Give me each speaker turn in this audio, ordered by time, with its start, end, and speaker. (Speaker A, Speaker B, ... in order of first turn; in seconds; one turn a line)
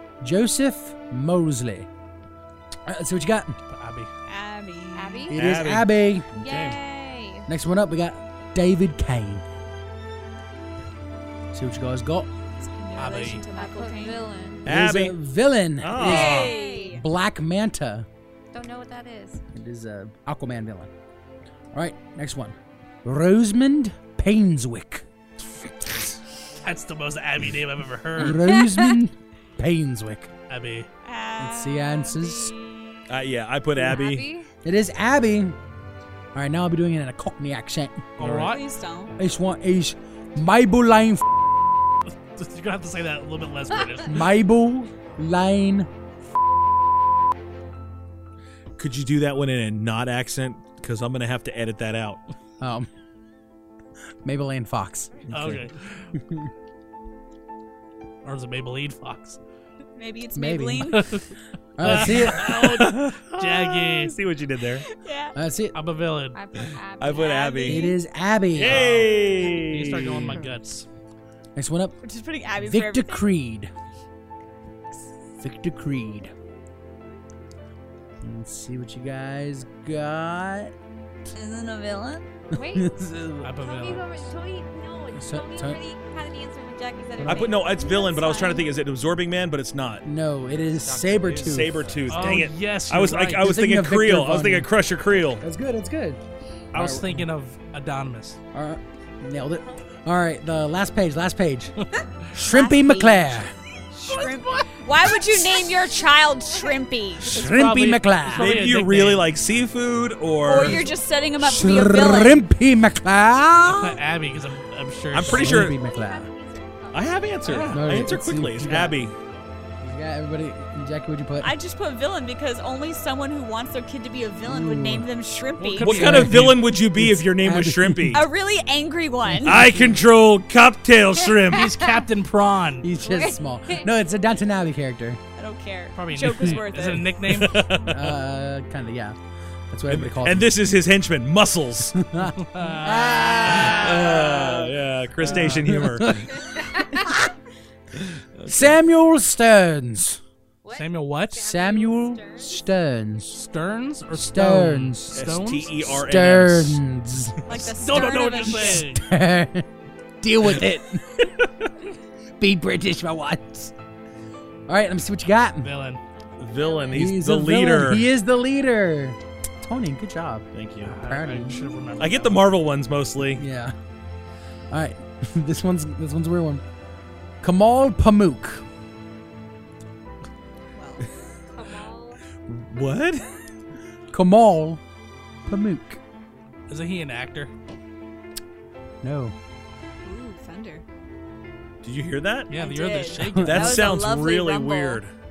Speaker A: 0.2-1.9
Speaker A: 2.9-3.5
Speaker B: 3.7-4.1
Speaker C: 4.2-5.3
Speaker D: 4.9-5.4
Speaker E: 5.3-6.8
Speaker A: 5.3-6.3
Speaker D: 6.3-7.5
Speaker A: 7.5-9.4
Speaker A: 11.5-12.3
Speaker C: 12.6-14.2
Speaker B: 13.0-13.5
Speaker D: 13.5-14.7
Speaker E: 14.6-15.2
Speaker A: 14.7-18.1
Speaker E: 15.8-16.5
Speaker C: 15.9-17.0
Speaker D: 16.2-17.0
Speaker D: 18.5-19.4
Speaker A: 19.5-20.9
Speaker A: 21.7-25.0
Speaker B: 26.6-28.5
Speaker A: 28.2-30.3
Speaker D: 28.4-28.9
Speaker B: 30.5-30.9
Speaker C: 31.0-33.0
Speaker A: 31.4-32.5
Speaker E: 33.1-34.3
Speaker D: 33.8-34.5
Speaker A: 34.6-35.6
Speaker A: 36.3-38.0
Speaker B: 38.2-38.6
Speaker E: 38.2-38.5
Speaker C: 38.4-39.2
Speaker A: 39.2-41.2
Speaker B: 42.1-44.2
Speaker A: 44.0-45.9
Speaker E: 48.8-52.2
Speaker A: 52.6-52.9
Speaker A: 54.2-55.3
Speaker E: 55.3-55.6
Speaker B: 55.3-56.1
Speaker A: 56.1-56.5
Speaker B: 58.2-59.4
Speaker C: 60.0-61.2
Speaker A: 60.3-60.9
Speaker B: 60.9-61.3
Speaker A: 61.8-62.6
Speaker B: 61.8-64.2
Speaker E: 62.2-64.9
Speaker C: 64.9-65.3
Speaker A: 65.3-65.8
Speaker B: 65.7-66.4
Speaker D: 66.3-67.9
Speaker E: 67.0-67.8
Speaker A: 67.6-68.9
Speaker E: 68.5-70.3
Speaker B: 68.6-70.8
Speaker C: 69.3-69.5
Speaker A: 71.5-72.0
Speaker C: 72.0-73.3
Speaker A: 72.6-73.7
Speaker A: 75.4-76.3
Speaker A: 78.2-80.7
Speaker C: 81.3-82.3
Speaker D: 82.5-82.9
Speaker A: 82.5-83.5
Speaker B: 83.4-84.3
Speaker D: 83.6-88.7
Speaker A: 85.2-85.8
Speaker A: 87.2-87.5
Speaker E: 87.2-90.0
Speaker A: 90.0-91.8
Speaker E: 90.8-95.4
Speaker B: 92.1-93.5
Speaker A: 93.4-94.7
Speaker A: 95.4-96.2
Speaker B: 96.7-98.4
Speaker A: 96.7-97.3
Speaker A: 98.5-103.5
Speaker C: 102.5-107.4
Speaker A: 107.2-108.6
Speaker B: 107.3-109.3
Speaker E: 108.4-110.8
Speaker C: 110.4-112.4
Speaker A: 111.4-114.0
Speaker B: 113.6-115.8
Speaker E: 115.1-115.8
Speaker A: 115.3-116.3
Speaker D: 115.6-117.6
Speaker E: 116.9-119.1
Speaker B: 117.4-117.9
Speaker A: 117.7-119.0
Speaker A: 119.8-121.5
Speaker C: 121.4-126.0
Speaker A: 124.5-125.1
Speaker B: 125.6-126.5
Speaker E: 125.8-128.2
Speaker A: 125.9-128.2
Speaker C: 128.1-129.7
Speaker A: 129.2-130.0
Speaker E: 129.4-131.8
Speaker B: 131.5-132.9
Speaker A: 132.8-135.2
Speaker D: 133.0-133.9
Speaker C: 135.4-137.1
Speaker B: 135.9-137.7
Speaker E: 137.3-138.2
Speaker A: 137.9-139.2
Speaker A: 139.7-140.5
Speaker E: 139.9-141.9
Speaker A: 141.9-144.5
Speaker B: 142.4-144.1
Speaker D: 142.9-143.3
Speaker C: 143.1-144.5
Speaker E: 143.3-146.3
Speaker A: 145.2-147.2
Speaker B: 145.2-145.7
Speaker D: 146.4-147.2
Speaker E: 148.1-148.8
Speaker A: 148.5-150.2
Speaker D: 150.6-152.7
Speaker B: 150.7-151.4
Speaker A: 151.3-153.4
Speaker B: 153.3-155.8
Speaker A: 154.1-155.2
Speaker E: 155.1-156.8
Speaker A: 155.8-159.7
Speaker C: 157.4-158.8
Speaker B: 157.8-159.0
Speaker A: 160.2-161.3
Speaker A: 162.4-163.7
Speaker A: 164.7-165.7
Speaker B: 165.6-166.0
Speaker D: 166.2-167.1
Speaker E: 166.4-168.1
Speaker A: 166.9-170.5
Speaker E: 170.5-170.9
Speaker B: 170.8-172.5
Speaker A: 171.0-171.6
Speaker E: 172.0-173.4
Speaker A: 173.3-173.7
Speaker A: 174.7-176.6
Speaker A: 177.4-178.6
Speaker C: 180.7-181.1
Speaker D: 181.5-182.2
Speaker E: 182.5-183.3
Speaker A: 184.1-184.8
Speaker A: 185.4-186.0
Speaker B: 186.7-187.5
Speaker A: 189.0-189.3
Speaker C: 190.0-190.8
Speaker E: 191.8-192.5
Speaker B: 192.5-194.1
Speaker C: 192.5-195.0
Speaker A: 193.2-193.7
Speaker E: 193.4-195.1